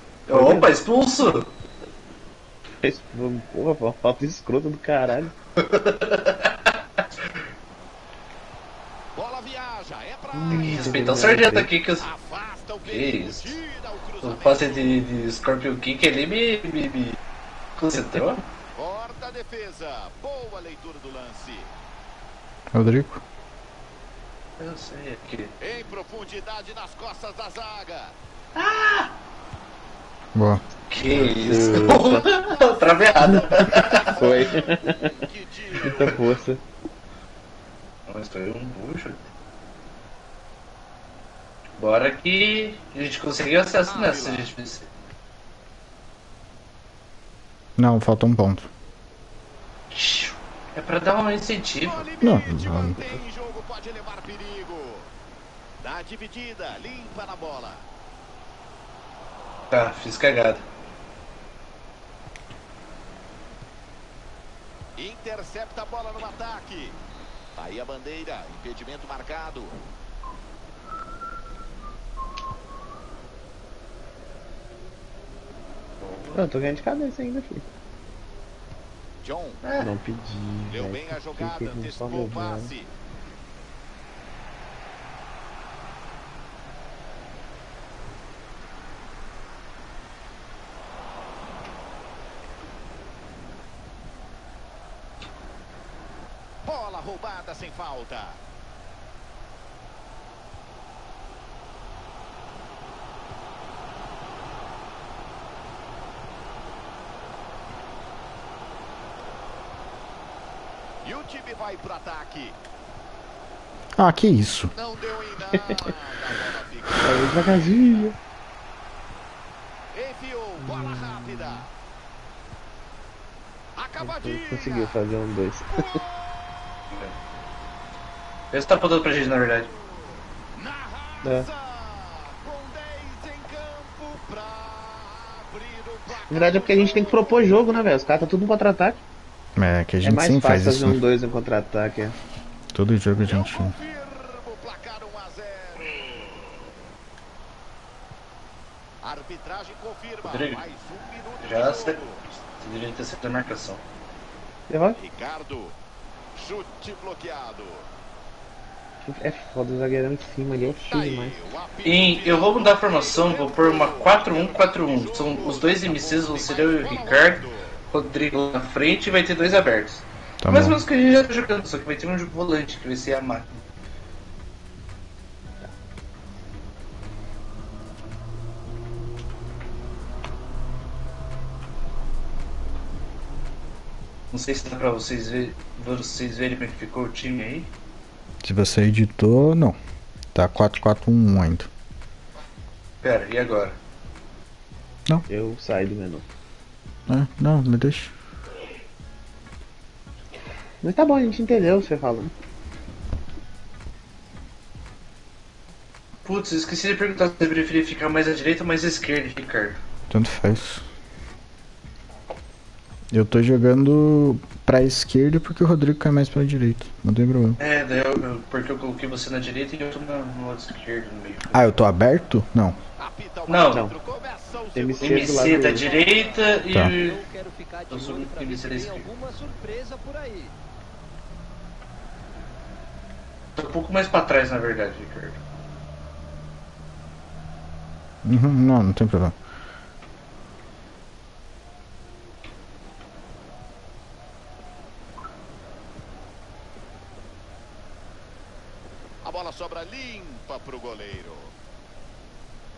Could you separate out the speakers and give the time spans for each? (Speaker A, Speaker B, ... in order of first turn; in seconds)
Speaker A: 0.3-1.5, 5.6-7.0, 10.5-12.1, 12.8-13.6, 14.2-17.2, 17.8-18.4, 24.6-25.5, 28.6-29.1, 30.9-34.2, 35.9-36.1, 38.1-39.3, 41.8-44.9, 49.9-52.0, 59.7-60.6, 76.0-76.4, 79.6-79.9, 126.9-127.2, 128.5-129.7, 150.2-150.6, 151.4-153.8, 161.8-173.6, 184.3-187.7, 193.0-193.8, 206.2-209.8, 217.6-221.7, 223.5-223.9, 225.0-227.2, 227.9-229.1, 233.6-235.4
Speaker B: 0.3-0.7, 2.8-5.3, 10.3-11.7, 31.2-32.3, 33.2-35.1, 35.8-36.6, 76.3-77.7, 79.8-82.7, 117.0-118.2, 120.6-121.6, 124.0-126.0, 136.3-139.0, 140.0-142.2, 154.7-155.0, 159.0-161.4, 195.3-196.2, 200.8-202.3, 224.7-225.9
Speaker C: 9.1-11.3, 12.0-15.0, 18.7-21.7, 25.6-28.1, 31.6-36.2, 43.9-44.5, 51.8-55.1, 55.8-57.9, 65.0-67.0, 67.5-69.8, 79.2-79.6, 80.7-82.9, 96.6-98.4, 111.0-112.6, 114.7-118.0, 119.9-121.7, 123.8-125.0, 125.7-126.5, 129.6-137.6, 143.1-146.3, 149.0-152.2, 155.0-155.8, 156.3-157.9, 160.9-167.8, 223.0-226.5, 249.2-251.5
Speaker D: 22.7-23.2, 30.3-30.6, 47.8-48.7, 52.2-53.2, 114.0-114.7, 139.6-141.0, 142.7-143.7, 170.4-170.8, 188.4-189.8, 190.3-191.7, 197.1-198.1, 210.1-210.8, 213.1-217.6, 221.5-222.8, 238.2-239.3
Speaker E: 226.2-230.5